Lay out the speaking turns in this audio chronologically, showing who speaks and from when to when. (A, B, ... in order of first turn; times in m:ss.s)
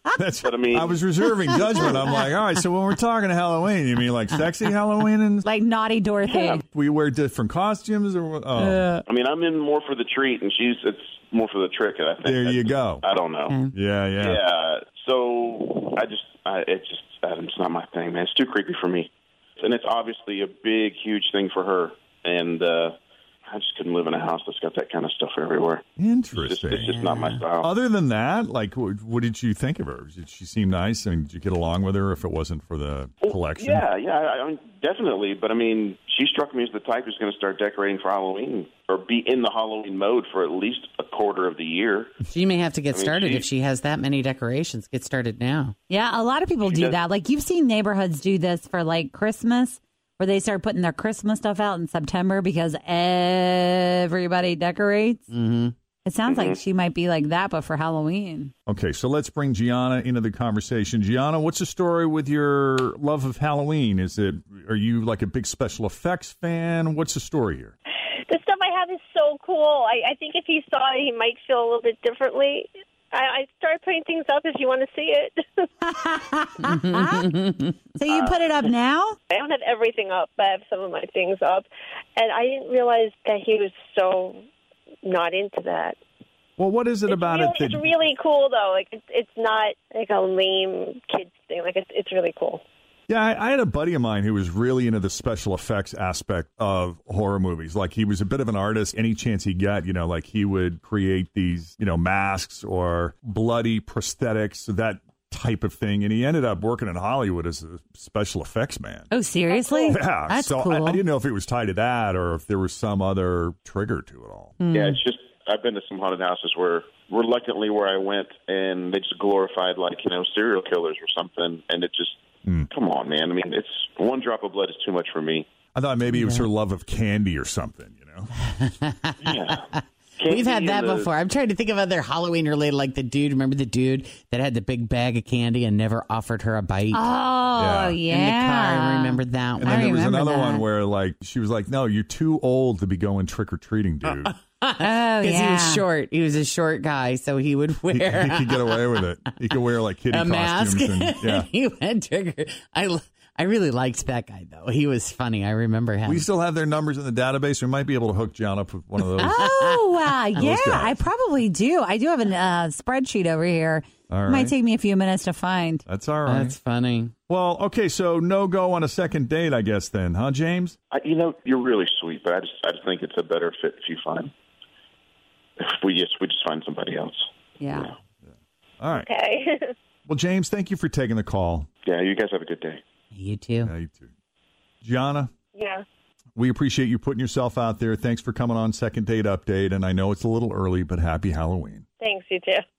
0:00.2-0:05.4 A
0:00.4-0:01.0 B
0:01.6-0:02.3 C
0:05.4-0:06.6 D
0:06.2-0:06.6 B
0:06.6-0:08.9 A
0:08.6-0:08.8 C
0:09.1-0:13.6 B
0:12.2-0:13.0 A
0:13.5-0:13.7 C
0:13.7-0:14.4 A
0:14.2-0:19.1 B
0:19.6-0:22.9 B
0:23.5-0:25.8 B
0:26.0-0:33.8 A
0:26.3-0:27.7 B
0:26.9-0:27.4 C
0:33.2-0:42.1 B
0:42.3-0:45.7 C
0:42.9-0:43.4 B
0:45.9-0:55.3 D
0:46.6-0:47.0 B
0:55.3-0:55.7 C
0:56.0-0:58.5 D
0:56.3-0:56.6 B
0:58.7-1:07.7 A
1:08.3-1:15.7 E
1:16.0-1:17.3 D
1:17.0-1:17.7 C
1:18.0-1:19.2 D
1:19.3-1:24.4 E
1:25.0-1:26.0 E
1:26.6-1:27.9 A
1:27.1-1:32.6 E
1:33.1-1:49.1 A
1:49.1-1:51.0 D
1:49.9-1:54.5 A
1:54.7-2:02.2 B
2:02.7-2:05.4 B
2:05.7-2:08.3 A
2:06.1-2:06.5 C
2:08.5-2:17.1 C
2:09.2-2:09.7 B
2:10.2-2:11.1 B
2:16.9-2:20.6 D
2:17.6-2:18.0 A
2:18.0-2:20.2 C
2:19.6-2:24.3 A
2:24.0-2:36.2 C
2:24.8-2:25.8 D
2:27.9-2:31.5 A
2:36.0-2:39.5 A
2:39.2-2:40.5 C
2:39.2-2:45.8 D
2:40.4-2:41.0 A
2:44.1-2:44.5 A
2:45.8-2:46.6 A
2:46.2-2:47.1 C
2:47.3-2:50.8 A
2:50.9-2:54.3 B
2:55.6-2:57.9 B
2:57.6-2:57.9 D
2:58.2-2:59.1 A
2:58.9-2:59.7 E
3:00.0-3:01.7 A
3:01.8-3:02.8 B
3:03.1-3:03.7 C
3:03.6-3:04.1 A
3:04.8-3:05.3 A
3:05.5-3:05.8 E
3:06.4-3:11.8 A
3:12.0-3:12.6 E